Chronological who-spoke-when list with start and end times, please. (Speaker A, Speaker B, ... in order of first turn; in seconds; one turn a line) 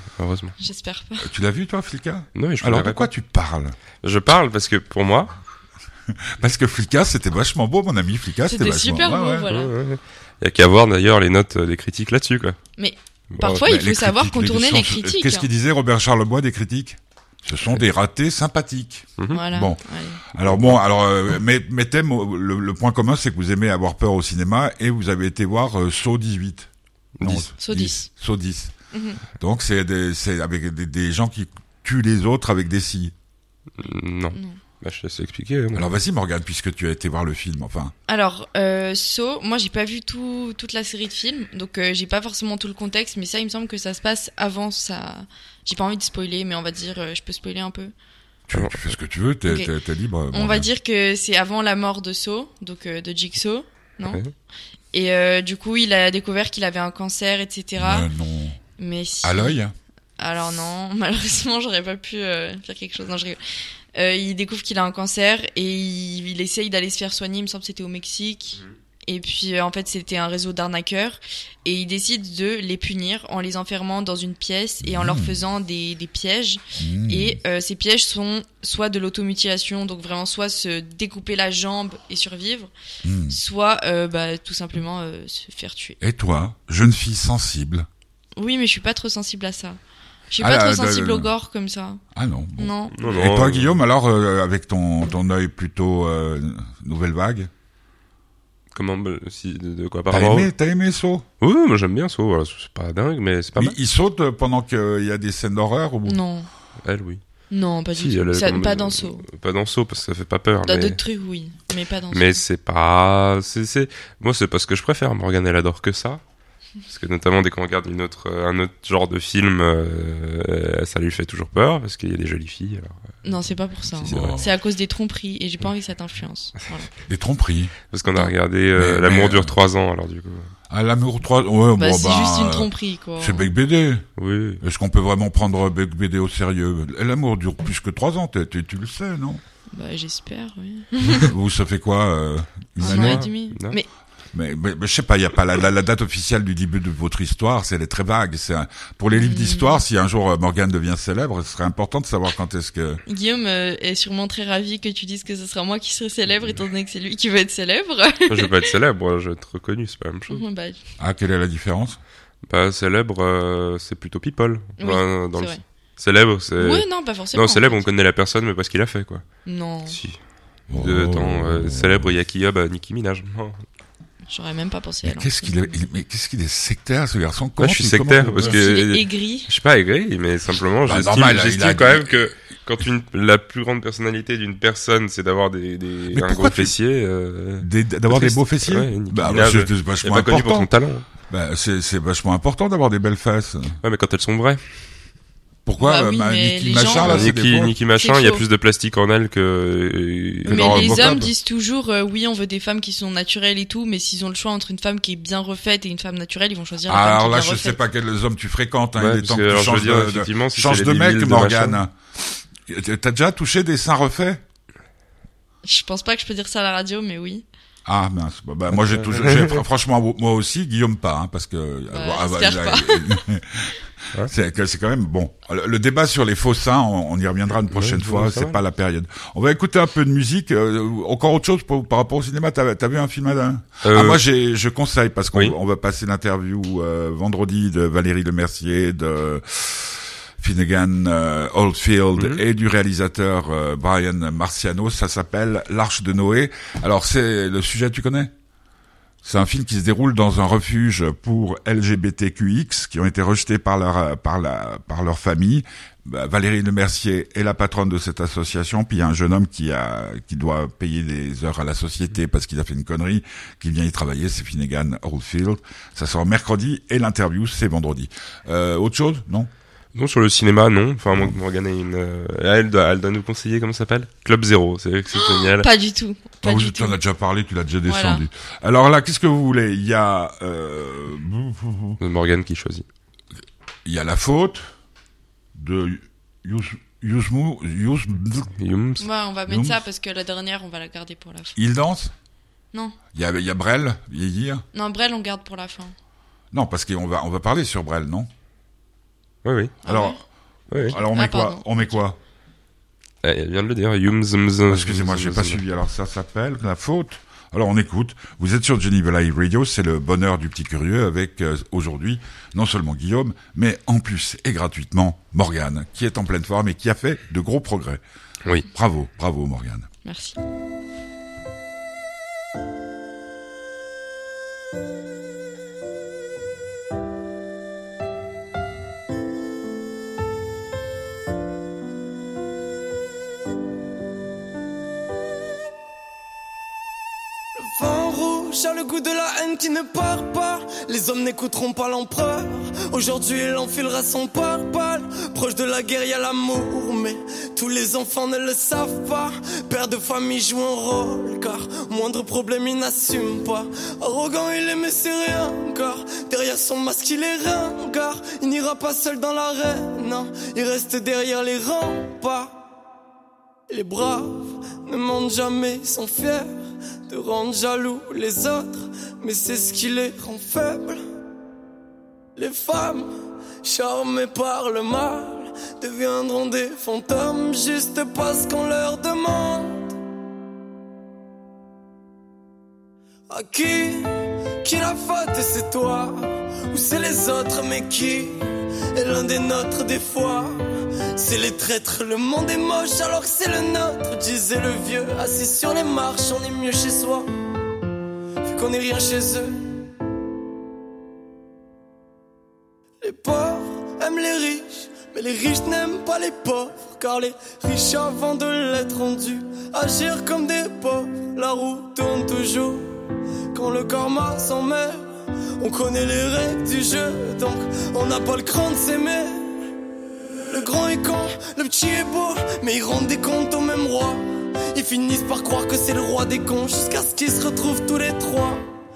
Speaker A: 0.1-0.6
Speaker B: 0.6-1.3
Speaker C: 1.2-3.8
Speaker A: 2.4-3.1
Speaker A: 4.0-5.3
Speaker C: 6.1-9.5
Speaker B: 8.5-9.7
Speaker A: 9.5-12.6
Speaker B: 12.8-15.5
Speaker C: 13.5-19.8
Speaker B: 19.3-20.2
Speaker C: 20.3-26.7
Speaker A: 20.4-20.8
Speaker A: 27.2-27.5
Speaker C: 27.2-28.7
Speaker B: 27.6-28.0
Speaker B: 28.9-29.2
Speaker C: 29.4-33.1
Speaker A: 33.8-35.9
Speaker C: 35.7-37.9
Speaker B: 38.1-47.9
Speaker C: 48.5-50.7
Speaker A: 48.5-48.8
Speaker B: 50.3-54.2
Speaker B: 54.9-58.1
Speaker C: 57.8-58.6
Speaker B: 58.8-59.6
Speaker C: 59.2-59.7
Speaker B: 60.2-63.4
Speaker B: 63.9-82.7
Speaker C: 74.8-75.4
Speaker C: 76.8-77.4
Speaker C: 83.0-83.4
Speaker B: 83.3-86.0
Speaker C: 86.0-87.9
Speaker B: 88.4-89.8
Speaker B: 90.3-92.0
Speaker C: 90.4-91.3
Speaker C: 92.1-97.5
Speaker B: 92.6-92.9
Speaker A: 92.9-93.8
Speaker A: 98.7-100.5
Speaker C: 100.1-101.2
Speaker A: 101.4-103.8
Speaker C: 103.5-106.2
Speaker B: 106.0-106.5
Speaker A: 106.8-107.2
Speaker B: 107.5-109.2
Speaker A: 108.0-111.0
Speaker B: 110.6-112.4
Speaker A: 112.1-116.2
Speaker A: 116.8-123.1
Speaker B: 123.2-126.9
Speaker C: 124.0-124.5
Speaker A: 124.0-124.3
Speaker C: 127.1-127.7
Speaker A: 127.9-130.5
Speaker C: 128.7-129.5
Speaker C: 130.7-134.1
Speaker B: 131.8-133.5
Speaker A: 134.2-134.6
Speaker C: 134.6-139.4
Speaker B: 139.7-141.3
Speaker C: 141.1-143.3
Speaker B: 142.8-143.9
Speaker A: 142.8-143.8
Speaker C: 144.3-153.0
Speaker B: 149.1-149.8
Speaker B: 153.1-158.6
Speaker A: 158.3-160.4
Speaker B: 160.3-160.8
Speaker C: 161.0-162.0
Speaker A: 162.5-169.2
Speaker B: 164.8-165.6
Speaker B: 166.6-167.8
Speaker B: 169.4-170.0
Speaker A: 169.9-170.2
Speaker C: 170.7-172.1
Speaker A: 170.7-173.6
Speaker B: 174.3-175.7
Speaker C: 175.0-178.6
Speaker A: 177.6-191.1
Speaker B: 178.4-179.5
Speaker C: 180.8-182.3
Speaker C: 186.1-186.7
Speaker C: 187.6-190.7
Speaker C: 191.3-193.8
Speaker A: 193.8-194.6
Speaker C: 195.6-197.7
Speaker B: 195.8-197.3
Speaker A: 196.9-201.2
Speaker B: 197.9-198.4
Speaker C: 200.4-201.3
Speaker B: 200.5-207.8
Speaker C: 206.8-211.9
Speaker A: 209.0-211.8
Speaker C: 212.7-214.4
Speaker B: 215.6-217.4
Speaker C: 217.8-248.3
Speaker A: 218.7-219.6
Speaker B: 221.9-223.2
Speaker A: 227.7-228.6
Speaker A: 233.8-234.2
Speaker A: 242.2-242.4
Speaker C: 249.2-269.5
Speaker A: 269.9-275.7
Speaker B: 275.1-277.0
Speaker C: 276.4-282.0
Speaker B: 277.9-278.2
Speaker A: 282.0-282.8
Speaker C: 283.8-284.7
Speaker C: 285.5-288.5
Speaker A: 288.6-289.1
Speaker B: 289.0-291.6
Speaker C: 289.5-289.8
Speaker C: 291.6-292.1
Speaker C: 293.1-294.6
Speaker B: 294.7-295.9
Speaker C: 296.5-298.3
Speaker A: 299.4-299.8
Speaker B: 299.9-300.2
Speaker C: 299.9-300.2
Speaker A: 300.7-301.0
Speaker C: 300.7-302.2
Speaker B: 300.9-302.0
Speaker A: 303.2-305.6
Speaker C: 304.7-318.0
Speaker C: 318.7-319.9
Speaker B: 320.0-320.4
Speaker D: 337.6-362.6
Speaker D: 363.7-366.5
Speaker D: 367.1-371.0
Speaker D: 372.4-373.1
Speaker D: 373.6-379.9
Speaker D: 383.3-388.4
Speaker D: 388.9-390.6
Speaker D: 391.1-397.3
Speaker D: 398.4-399.5
Speaker D: 403.0-412.9
Speaker D: 413.5-415.0
Speaker D: 415.6-419.7
Speaker D: 420.5-428.6